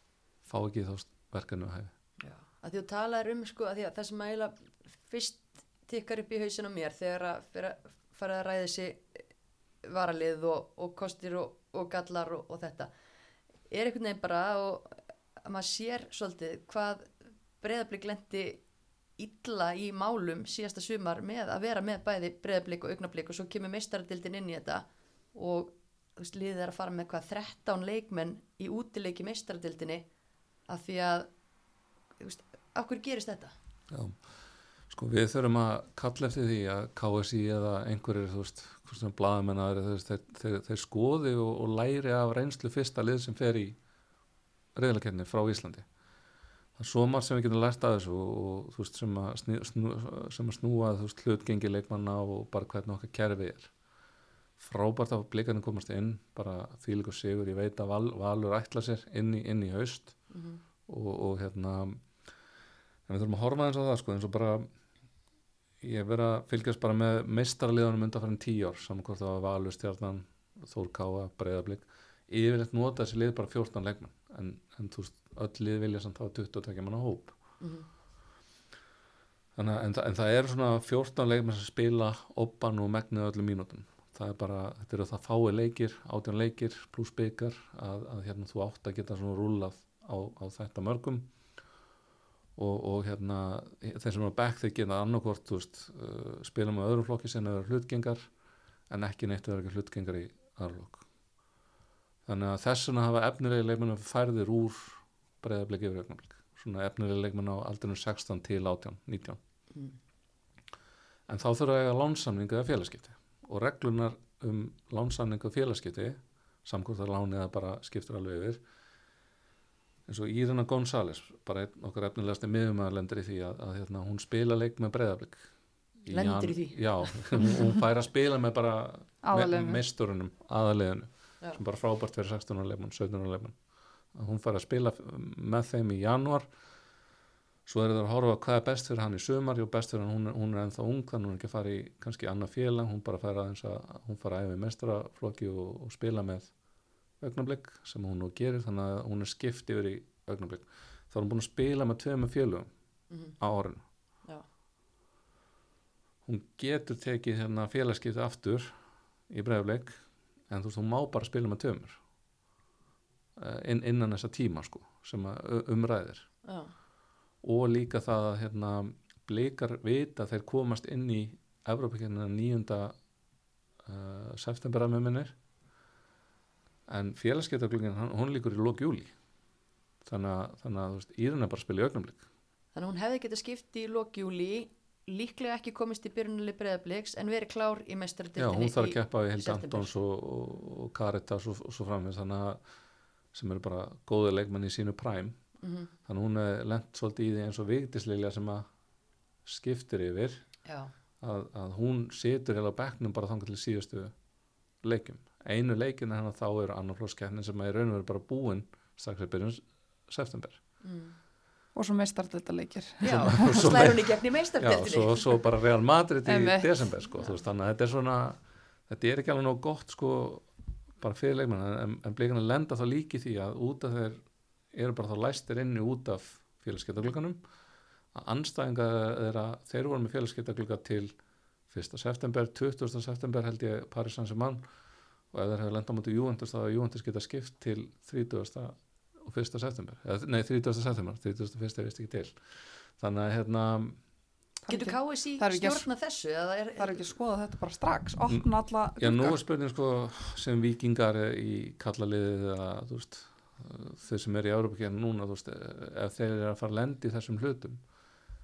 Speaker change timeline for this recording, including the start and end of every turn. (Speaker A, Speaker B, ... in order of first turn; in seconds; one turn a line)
Speaker A: 0.5-1.9
Speaker B: 2.2-9.2
Speaker B: 9.8-12.9
Speaker B: 13.7-18.6
Speaker B: 19.2-30.1
Speaker B: 30.7-31.3
Speaker B: 32.2-33.5
Speaker A: 33.9-34.2
Speaker A: 34.9-43.8
Speaker A: 44.8-45.9
Speaker A: 46.8-53.7
Speaker A: 54.6-60.2
Speaker B: 60.3-60.6
Speaker A: 60.9-62.0
Speaker A: 63.1-64.7
Speaker A: 65.8-77.4
Speaker B: 77.6-77.9
Speaker A: 79.6-91.3
Speaker A: 92.6-98.3
Speaker A: 98.9-101.1
Speaker A: 102.3-109.4
Speaker A: 111.3-118.6
Speaker A: 120.1-125.5
Speaker A: 126.0-133.6
Speaker B: 126.1-127.5
Speaker C: 129.2-129.8
Speaker A: 134.1-136.5
Speaker A: 137.7-146.5
Speaker A: 147.2-152.7
Speaker B: 153.1-153.4
Speaker A: 153.4-153.8
Speaker A: 156.2-158.7
Speaker A: 159.3-162.0
Speaker A: 163.4-166.3
Speaker B: 166.4-166.7
Speaker A: 167.4-173.0
Speaker A: 173.8-175.3
Speaker A: 176.9-179.1
Speaker A: 180.0-182.2
Speaker B: 182.7-189.9
Speaker A: 188.4-192.6
Speaker A: 193.3-195.4
Speaker B: 195.6-195.9
Speaker A: 196.1-198.7
Speaker A: 199.4-200.4
Speaker B: 200.7-200.9
Speaker A: 201.2-204.1
Speaker A: 204.8-210.6
Speaker B: 210.8-211.2
Speaker C: 211.8-213.8
Speaker B: 213.0-215.3
Speaker A: 213.3-220.5
Speaker C: 216.3-216.7
Speaker A: 221.0-227.4
Speaker A: 228.1-231.2
Speaker A: 231.7-234.6
Speaker A: 235.3-244.0
Speaker C: 244.6-245.9
Speaker B: 244.7-247.0
Speaker C: 246.8-249.4
Speaker A: 249.0-257.8